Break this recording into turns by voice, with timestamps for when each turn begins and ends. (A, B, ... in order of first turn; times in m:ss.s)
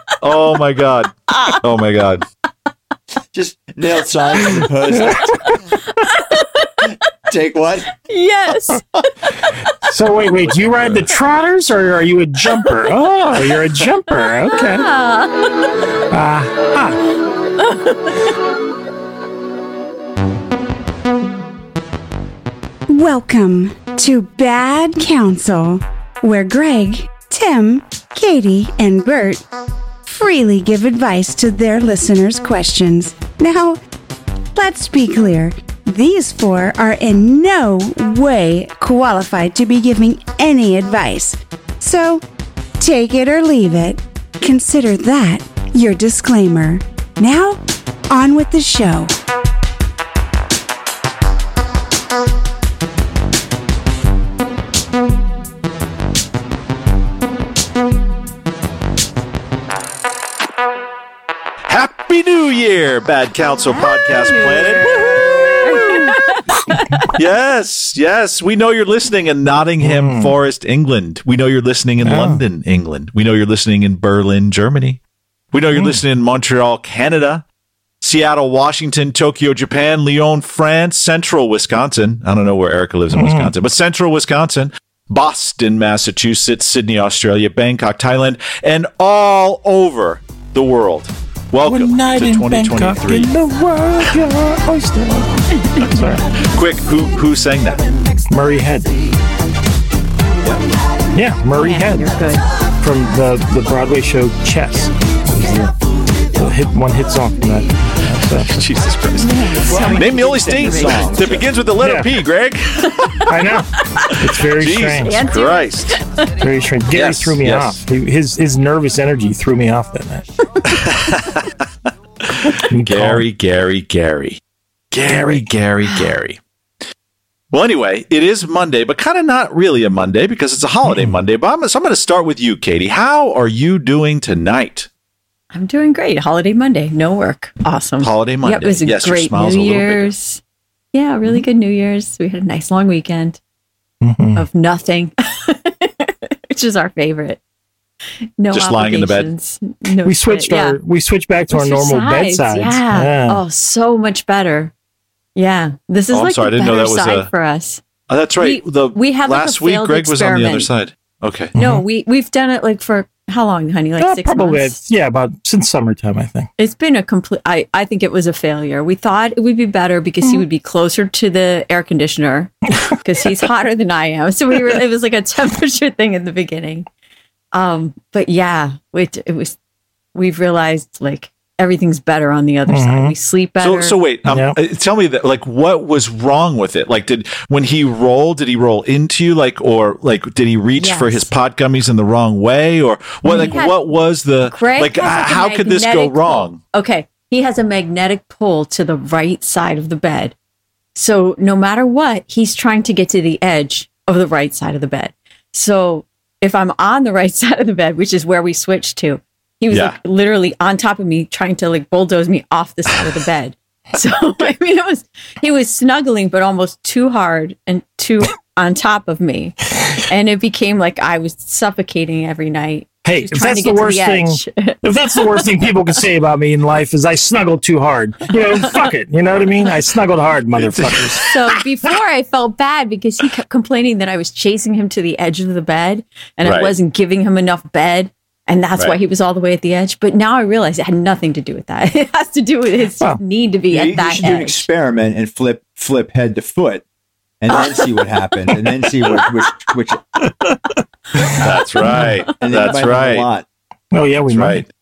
0:00.2-0:02.2 A
0:01.3-0:01.6 B
0:03.3-0:05.6 C
0:04.9-0:05.6 D
0:05.9-0:06.9 B
0:07.3-0:07.9 C
0:07.9-0:09.9 B
0:09.9-0:14.9 D
0:10.2-0:11.2 A
0:14.5-0:15.7 B
0:16.1-0:17.0 D
0:17.6-0:18.3 B
0:22.9-0:29.4 E
0:30.0-0:33.8 E
0:34.5-0:42.2 E
0:42.8-0:49.1 E
1:01.7-1:06.1 A
1:03.7-1:07.0 B
1:07.1-1:15.0 A
1:09.8-1:10.3 D
1:12.0-1:12.4 D
1:15.5-1:17.4 A
1:15.7-1:16.0 D
1:18.0-1:33.3 A
1:23.1-1:23.5 D
1:31.6-1:36.2 D
1:35.6-1:35.9 B
1:35.8-1:37.9 A
1:38.3-1:38.9 D
1:41.1-1:42.1 D
1:41.6-1:42.4 B
1:42.8-1:45.7 D
1:46.3-1:48.5 D
1:48.5-1:53.3 A
1:49.2-1:50.1 B
1:49.6-1:51.5 C
1:51.8-1:52.1 D
1:53.3-1:55.2 D
1:54.1-1:56.0 A
1:55.0-1:56.3 B
1:56.4-2:00.2 D
1:56.9-1:57.8 A
2:00.7-2:01.5 A
2:02.3-2:06.4 A
2:02.5-2:03.2 D
2:05.0-2:05.4 D
2:07.5-2:14.9 A
2:10.8-2:11.2 D
2:15.5-2:20.4 B
2:18.0-2:20.1 A
2:20.9-2:23.4 B
2:24.0-2:24.4 D
2:24.3-2:27.4 B
2:28.4-2:30.8 B
2:28.5-2:29.3 A
2:30.0-2:33.4 D
2:31.5-2:34.7 B
2:35.4-2:37.8 B
2:36.1-2:37.3 A
2:38.1-2:41.5 A
2:38.4-2:40.7 B
2:41.5-2:41.8 D
2:41.5-2:44.8 B
2:44.0-2:46.5 D
2:46.6-2:56.9 B
2:57.5-2:59.6 B
3:00.1-3:04.0 B
3:02.7-3:03.1 D
3:03.6-3:16.6 A
3:04.2-3:04.6 D
3:10.8-3:11.3 B
3:13.2-3:13.9 B
3:14.4-3:20.3 B
3:20.9-3:45.4 B
3:29.7-3:30.0 A
3:43.0-3:51.2 D
3:48.4-3:48.9 B
3:50.5-3:51.6 A
3:51.2-4:04.6 B
3:56.4-3:56.7 A
4:03.7-4:06.8 C
4:07.4-4:10.0 C
4:07.5-4:07.8 B
4:11.2-4:12.1 B
4:11.4-4:13.3 A
4:12.4-4:13.4 C
4:13.9-4:14.6 D
4:14.3-4:14.6 A